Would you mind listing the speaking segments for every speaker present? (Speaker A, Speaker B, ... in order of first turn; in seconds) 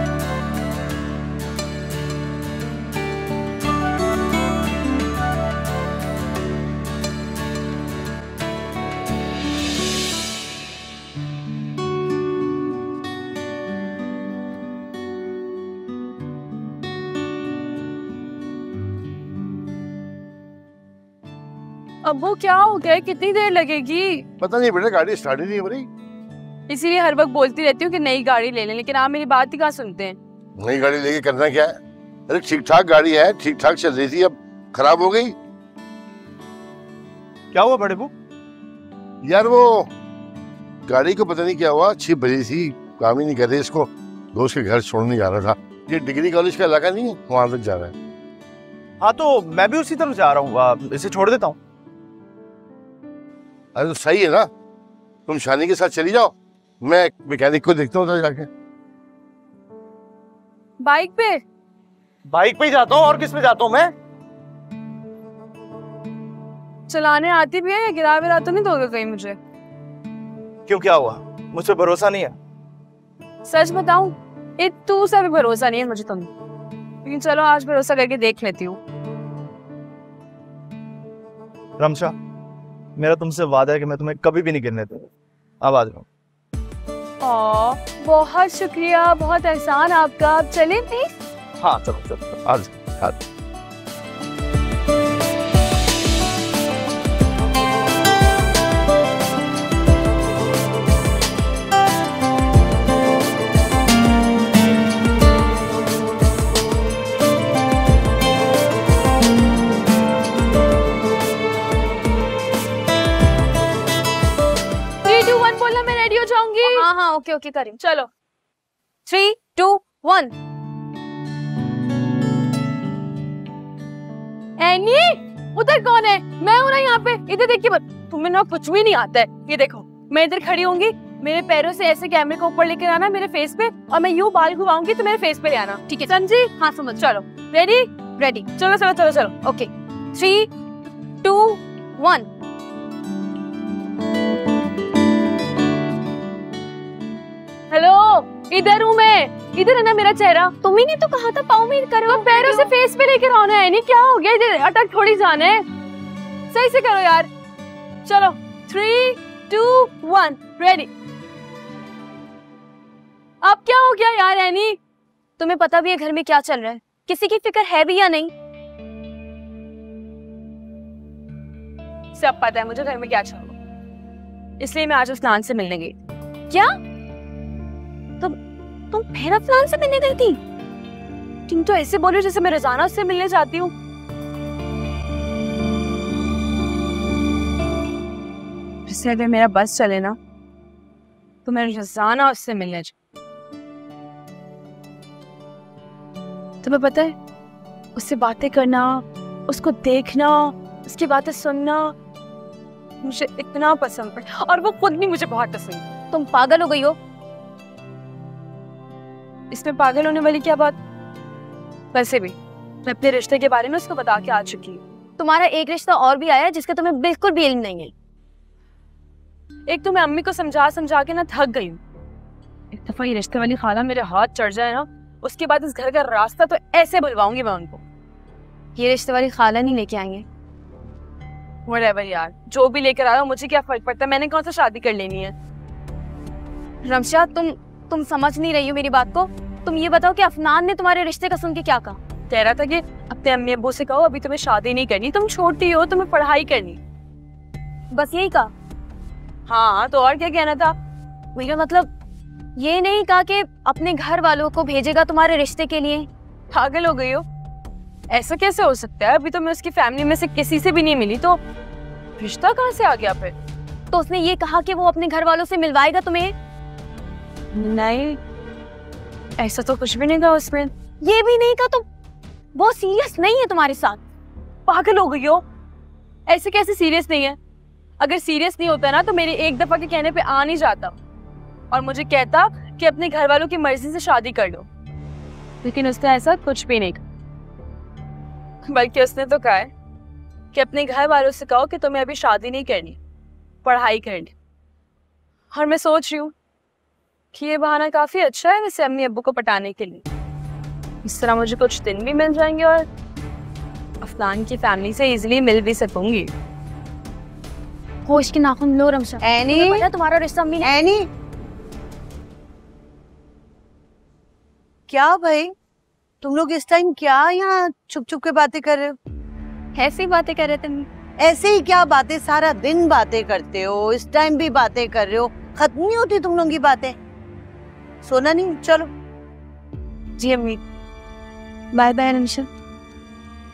Speaker A: 22.0-24.3, 26.7-30.2, 60.8-61.4, 66.9-69.4, 73.5-76.3, 77.0-78.8, 87.2-91.1, 115.0-116.9, 117.8-118.1, 124.6-137.9, 138.6-139.4, 147.7-150.6, 152.1-155.6, 156.5-157.3, 158.1-160.9, 163.4-164.8, 172.2-173.6, 174.6-176.0, 181.5-183.7, 188.9-190.2, 191.4-192.9, 196.6-197.2, 198.0-201.9, 203.0-205.9, 209.5-210.8, 211.9-214.8, 219.7-221.8, 222.7-227.8, 231.7-235.3, 242.3-246.8, 249.5-250.8, 256.5-257.2, 258.1-261.4, 262.2-263.4, 267.5-268.2, 269.4-270.7, 274.7-275.4, 276.3-277.4, 278.0-281.0, 281.7-284.7, 285.6-287.0, 288.7-289.7, 290.5-293.0, 293.6-294.3, 295.5-296.3, 297.3-300.0, 301.0-302.9, 304.0-306.3
Speaker B: 24.4-25.9, 30.6-31.8, 32.3-35.4, 39.2-39.9, 40.9-47.9, 53.8-54.5, 55.3-58.5
Speaker C: 37.5-38.1, 49.0-51.6, 62.3-63.9, 70.7-72.4, 81.8-82.1, 83.0-85.1, 85.6-86.1, 91.6-93.2
Speaker D: 116.6-117.8, 119.1-120.3, 138.1-138.5, 139.4-140.5, 141.2-142.3, 150.6-152.7, 165.4-168.3, 178.9-180.4, 206.1-207.0, 215.2-217.9, 228.8-230.2, 236.8-242.0, 247.9-248.5, 251.3-251.9, 252.6-256.1, 263.9-266.3, 271.0-271.9, 272.5-274.0, 308.1-310.7, 319.8-320.9, 331.9-332.2
Speaker E: 309.2-309.9, 310.6-311.1, 314.9-315.5, 316.2-319.0, 321.2-327.0, 328.0-328.9, 331.7-332.5